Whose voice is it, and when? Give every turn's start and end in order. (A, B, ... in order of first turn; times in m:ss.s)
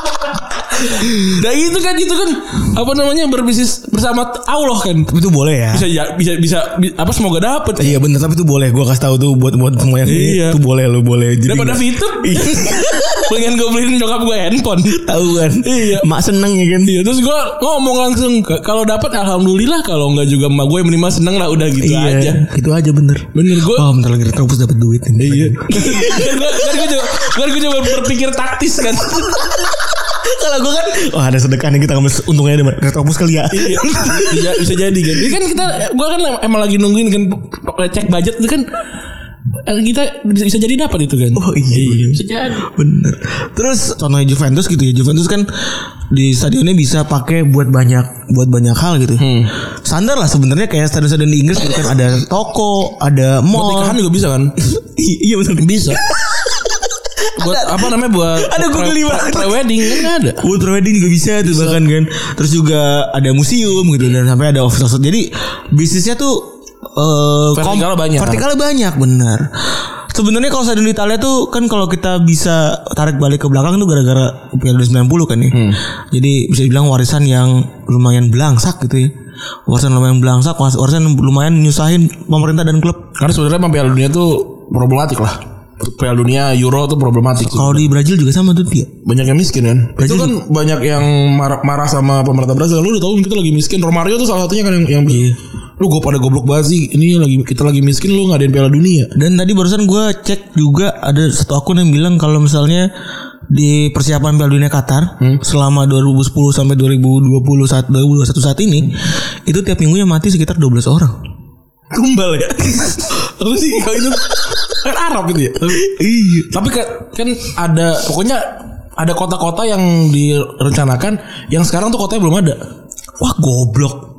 0:00.6-0:05.1 A
0:05.1-0:05.9 B
0:05.7-0:08.0 A
0:07.8-0:13.3 B
0:10.0-0:10.6 A
0:11.4-0:16.1 A
0:14.9-0:16.9 B
0:16.8-0:22.4 A
0:21.8-0:27.3 B
0:23.3-0:23.9 A
0:25.2-0:29.6 A
0:29.2-0:35.3 B
0:33.5-0:38.8 A
0:39.6-0:42.6 A
0:41.3-0:54.0 B
0:49.2-0:49.5 A
0:53.5-0:54.5 A
0:54.6-1:19.1 B
0:55.6-0:56.0 A
0:57.4-1:00.5 A
1:01.4-1:01.8 A
1:07.5-1:08.4 A
1:15.5-1:15.8 A
1:19.7-1:23.1 B
1:23.2-1:27.8 A
1:27.4-1:28.9 B
1:29.0-1:39.1 A
1:30.0-1:30.4 B
1:35.1-1:35.4 B
1:39.1-1:42.9 B
1:43.5-1:51.2 B
1:51.9-1:55.9 A
1:55.7-1:56.5 B
1:56.4-2:02.6 A
2:03.2-2:04.0 B